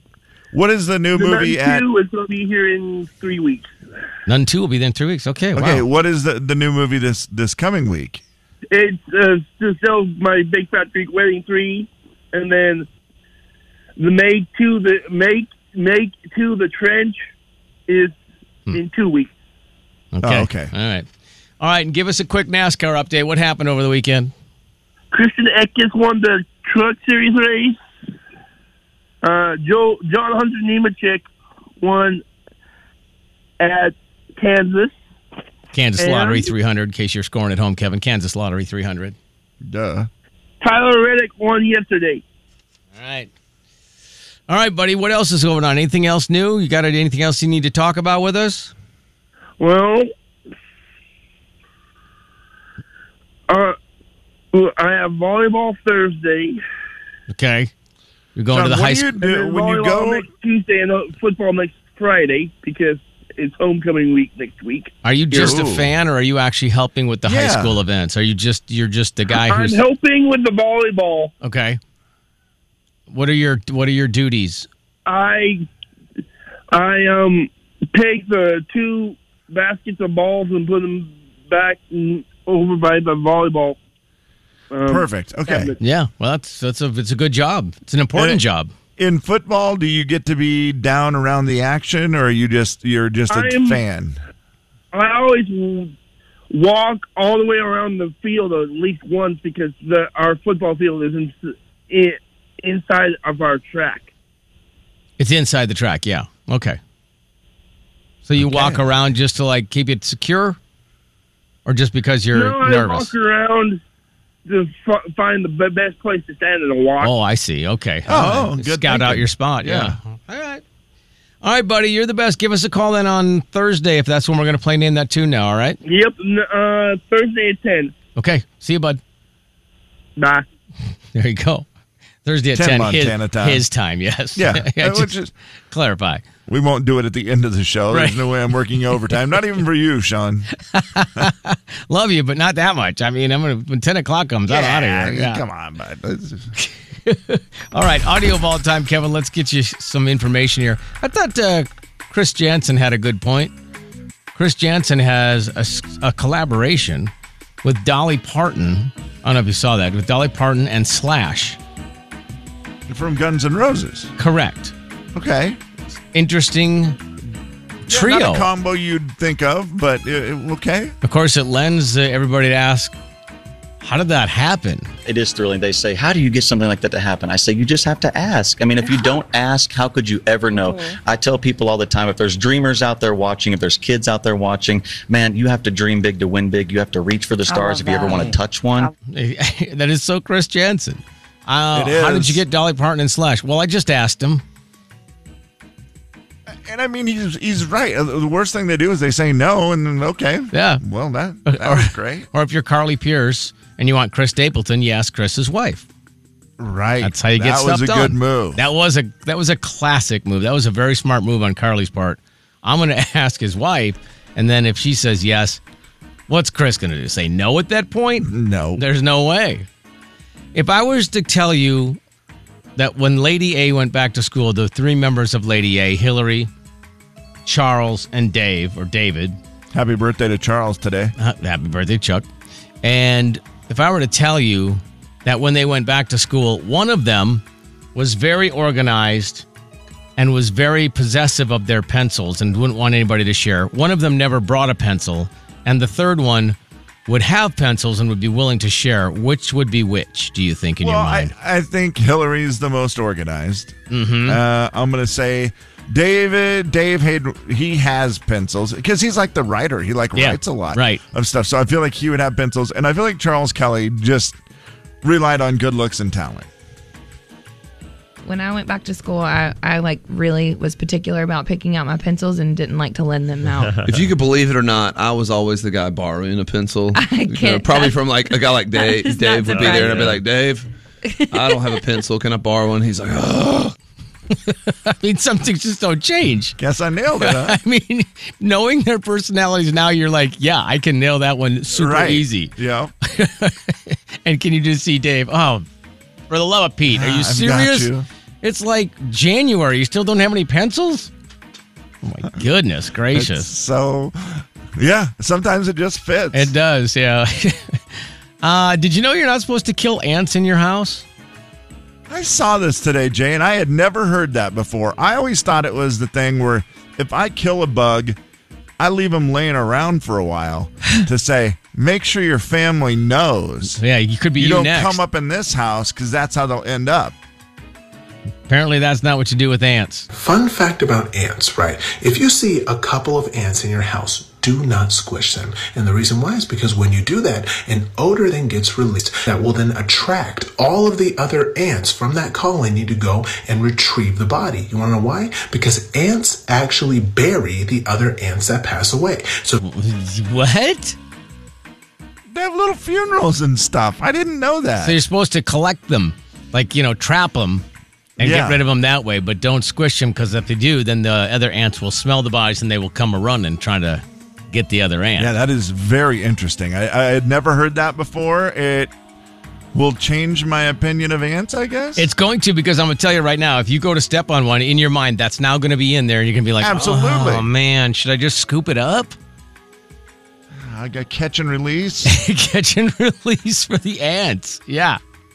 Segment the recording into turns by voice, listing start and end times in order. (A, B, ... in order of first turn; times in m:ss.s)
0:00.5-0:01.8 A
0:01.2-0:03.7 B
0:04.2-0:05.8 C
0:05.5-0:08.2 A
0:08.7-0:12.9 B
0:14.0-0:17.2 B
0:17.9-0:18.2 B
0:18.7-0:19.3 B
0:20.1-0:21.1 C
0:20.2-0:20.7 A
0:21.6-0:24.3 C
0:25.1-0:27.8 B
0:29.2-0:31.2 B
0:31.8-0:32.2 B
0:33.6-0:34.9 B
0:35.7-0:39.2 C
0:36.0-0:36.5 B
0:39.6-0:40.1 A
0:40.6-0:42.2 B
0:43.0-0:43.3 C
0:44.5-0:48.7 C
0:49.6-0:50.1 B
0:53.5-0:53.8 B
0:54.5-0:56.6 B
0:57.3-0:57.7 C
0:58.3-0:59.1 C
0:58.5-1:00.3 A
0:59.2-1:04.9 B
1:05.0-1:09.8 C
1:05.3-1:05.9 A
1:07.2-1:07.8 A
1:09.3-1:11.3 B
1:11.4-1:11.8 C
1:13.1-1:14.7 C
1:15.0-1:15.6 B
1:16.7-1:23.8 B
1:24.7-1:25.8 B
1:24.8-1:25.7 A
1:25.8-1:28.7 C
1:28.1-1:28.4 A
1:29.0-1:34.2 A
1:33.3-1:33.8 B
1:34.9-1:35.9 B
1:36.5-1:44.1 B
1:45.2-1:46.8 C
1:48.2-1:50.6 C
1:48.4-1:48.8 A
1:51.6-1:53.1 C
1:52.3-1:53.8 B
1:54.4-1:57.1 B
1:57.0-2:00.6 C
1:58.1-2:00.0 A
2:01.4-2:05.8 C
2:05.8-2:07.9 B
2:08.2-2:09.0 C
2:10.2-2:10.4 B
2:11.1-2:11.7 C
2:12.2-2:15.2 C
2:12.5-2:13.6 A
2:14.4-2:15.3 A
2:15.7-2:16.2 C
2:16.5-2:20.5 A
2:17.9-2:18.3 C
2:20.6-2:25.4 C
2:24.5-2:26.5 A
2:26.6-2:33.5 C
2:34.3-2:37.1 C
2:37.6-2:41.6 C
2:42.9-2:44.1 A
2:44.2-2:44.7 C
2:45.1-2:45.6 A
2:46.1-2:47.0 C
2:47.9-2:48.5 C
2:47.9-2:50.9 A
2:51.0-2:52.9 C
2:53.8-2:54.9 C
2:55.0-3:08.9 D
3:09.1-3:14.4 C
3:11.7-3:12.4 A
3:16.5-3:22.3 A
3:20.5-3:20.8 C
3:21.4-3:25.8 C
3:26.6-3:28.6 A
3:27.0-3:35.6 C
3:36.3-3:39.6 C
3:38.2-3:38.8 A
3:40.5-3:42.0 C
3:42.8-3:46.5 C
3:47.4-3:49.4 C
3:49.7-3:51.1 A
3:51.2-3:52.2 C
3:52.8-3:57.4 C
3:57.9-3:59.4 C
4:00.2-4:06.6 C
4:07.1-4:11.3 C
4:10.8-4:24.4 A
4:13.9-4:14.4 C
4:20.1-4:21.0 C
4:25.0-4:26.5 A
4:28.2-4:33.8 E
4:33.8-4:40.7 F
4:36.9-4:40.2 E
4:41.1-4:41.9 E
4:41.3-4:43.7 F
4:44.3-4:46.6 C
4:46.6-4:47.6 A
4:47.2-4:52.5 C
4:51.7-4:52.9 A
4:53.0-4:55.6 C
4:56.3-4:57.9 C
4:56.9-4:58.1 A
4:58.4-5:01.1 C
5:02.0-5:03.5 C
5:03.1-5:06.5 A
5:06.3-5:07.8 C
5:08.4-5:11.0 C
5:12.1-5:18.2 A
5:18.8-5:23.8 A
5:23.8-5:25.0 C
5:24.4-5:27.2 A
5:28.5-5:30.1 C
5:30.1-5:49.6 G
5:49.6-5:51.0 C
5:52.3-5:55.0 A
5:54.8-5:57.6 C
5:58.2-6:05.3 C
5:58.2-5:58.6 A
6:05.2-6:08.9 A
6:09.7-6:12.1 A
6:12.0-6:19.1 C
6:16.6-6:17.5 A
6:20.5-6:22.1 A
6:22.0-6:25.0 C